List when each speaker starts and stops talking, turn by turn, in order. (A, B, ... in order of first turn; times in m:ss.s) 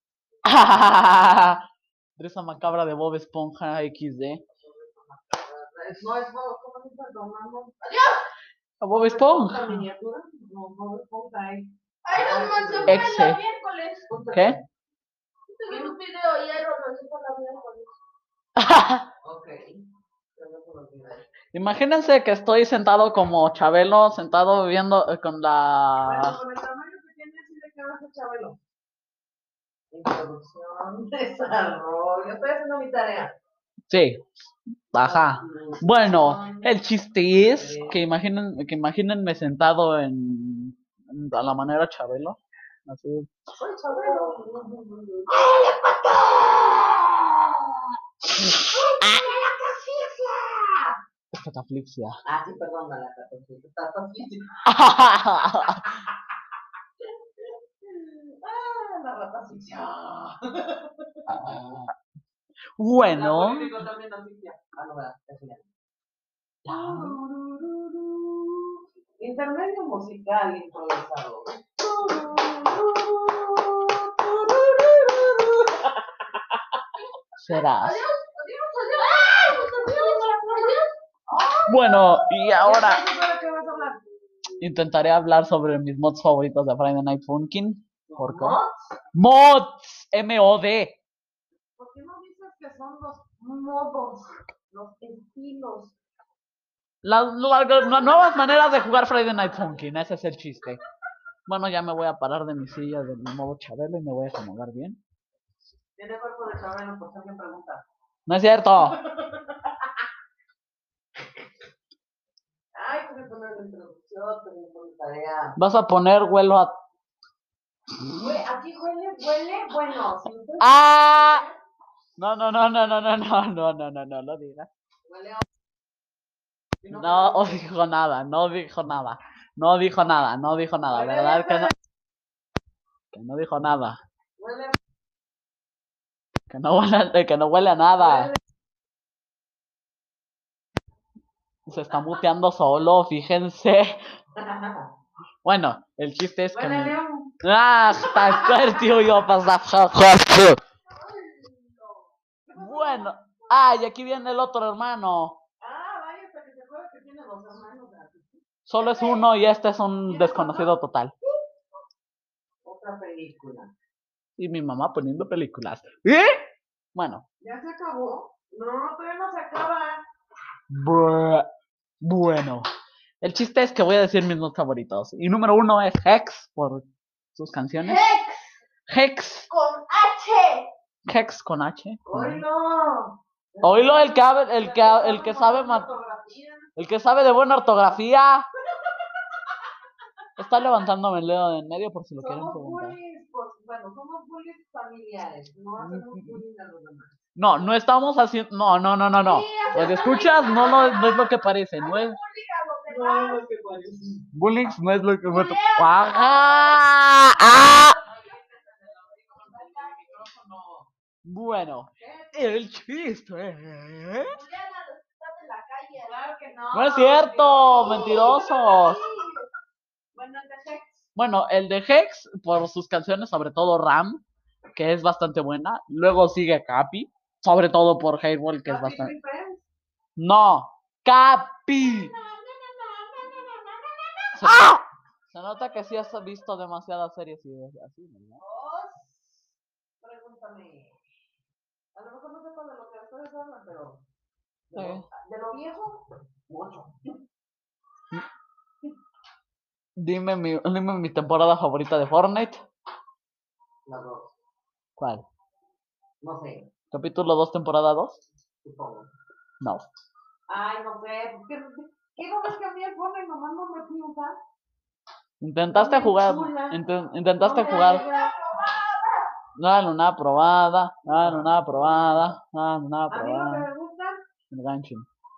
0:00.4-0:01.6 A
0:02.2-0:04.4 A
0:04.6-0:07.8 B
0:07.8-0:08.2 C
0:08.8-0:09.8 A
0:08.9-0:13.1 B
0:12.0-0:14.0 C
0:12.9-0:13.4 A
0:14.1-0:14.6 B
0:14.3-0:14.6 A
0:15.5-0:17.9 C
0:15.7-0:16.0 B
0:18.6-0:19.0 A
0:19.2-0:19.7 B
0:20.3-0:21.3 B
0:21.5-0:26.4 A
0:26.0-0:28.6 B
0:29.9-0:33.3 B
0:33.9-0:34.2 A
0:34.9-0:43.3 A
0:35.0-0:36.7 B
0:37.3-0:38.0 B
0:43.6-0:45.4 B
0:45.4-0:47.0 C
0:49.0-0:50.3 C
0:49.7-0:50.7 B
0:51.3-0:52.1 A
0:52.2-0:54.6 B
0:54.6-0:55.9 A
0:57.4-1:01.8 B
1:01.3-1:01.9 A
1:02.8-1:03.7 A
1:03.1-1:05.6 B
1:06.6-1:07.2 A
1:06.7-1:16.0 B
1:17.4-1:18.0 A
1:17.5-1:20.9 C
1:19.4-1:20.7 B
1:21.3-1:22.0 B
1:21.7-1:23.0 A
1:22.6-1:24.0 B
1:24.6-1:28.6 A
1:28.1-1:28.9 B
1:29.1-1:31.0 A
1:31.8-1:36.0 B
1:37.0-1:40.8 A
1:41.5-1:45.0 A
1:46.0-1:47.8 B
1:48.3-1:49.0 A
1:49.0-1:49.7 B
1:52.8-1:55.5 B
1:55.6-1:56.7 A
1:58.2-2:01.6 B
2:00.6-2:01.4 A
2:02.2-2:04.7 A
2:05.1-2:05.4 B
2:06.8-2:07.6 B
2:06.9-2:11.7 A
2:10.9-2:11.4 B
2:13.1-2:14.0 A
2:14.4-2:14.8 B
2:16.5-2:18.3 A
2:18.0-2:18.4 B
2:21.7-2:24.0 A
2:24.4-2:24.9 B
2:25.4-2:30.6 A
2:26.5-2:27.3 B
2:28.0-2:28.9 B
2:31.3-2:31.6 B
2:32.5-2:33.1 B
2:32.6-2:35.4 A
2:35.6-2:39.2 B
2:38.7-2:41.1 A
2:40.1-2:40.7 B
2:42.6-2:43.7 B
2:44.4-2:47.2 A
2:47.4-2:50.0 B
2:50.7-2:51.4 A
2:52.0-2:52.6 A
2:53.2-2:58.1 A
2:57.8-2:58.5 C
2:58.9-2:59.5 A
2:59.5-3:00.7 C
3:01.1-3:02.4 A
3:02.0-3:06.7 B
3:03.6-3:05.9 A
3:06.8-3:08.4 A
3:10.4-3:13.0 A
3:12.2-3:17.7 B
3:15.8-3:16.4 A
3:17.4-3:22.2 A
3:19.2-3:23.4 C
3:22.9-3:24.2 B
3:24.3-3:28.0 A
3:25.2-3:27.9 C
3:27.6-3:30.9 B
3:29.4-3:30.1 C
3:31.2-3:34.4 A
3:32.0-3:32.5 B
3:34.2-3:36.2 C
3:36.0-3:39.2 B
3:36.7-3:39.0 A
3:37.6-3:39.3 C
3:40.1-3:41.0 B
3:41.1-3:44.2 A
3:44.7-3:49.1 A
3:48.6-3:49.7 B
3:50.2-3:52.1 A
3:52.0-3:53.9 C
3:53.2-3:53.5 B
3:54.3-3:58.4 A
3:58.4-3:59.3 B
4:00.0-4:01.0 B
4:01.9-4:04.0 B
4:04.7-4:07.1 B
4:04.8-4:05.0 A
4:10.0-4:12.6 A
4:13.8-4:14.3 B
4:15.0-4:15.2 A
4:16.2-4:16.7 B
4:16.9-4:18.2 A
4:18.6-4:19.1 B
4:19.6-4:19.9 A
4:20.5-4:24.4 B
4:25.4-4:28.1 A
4:25.7-4:26.8 B
4:27.4-4:28.3 B
4:27.5-4:29.2 C
4:29.6-4:33.7 A
4:31.0-4:32.3 B
4:33.1-4:34.2 B
4:34.5-4:35.0 A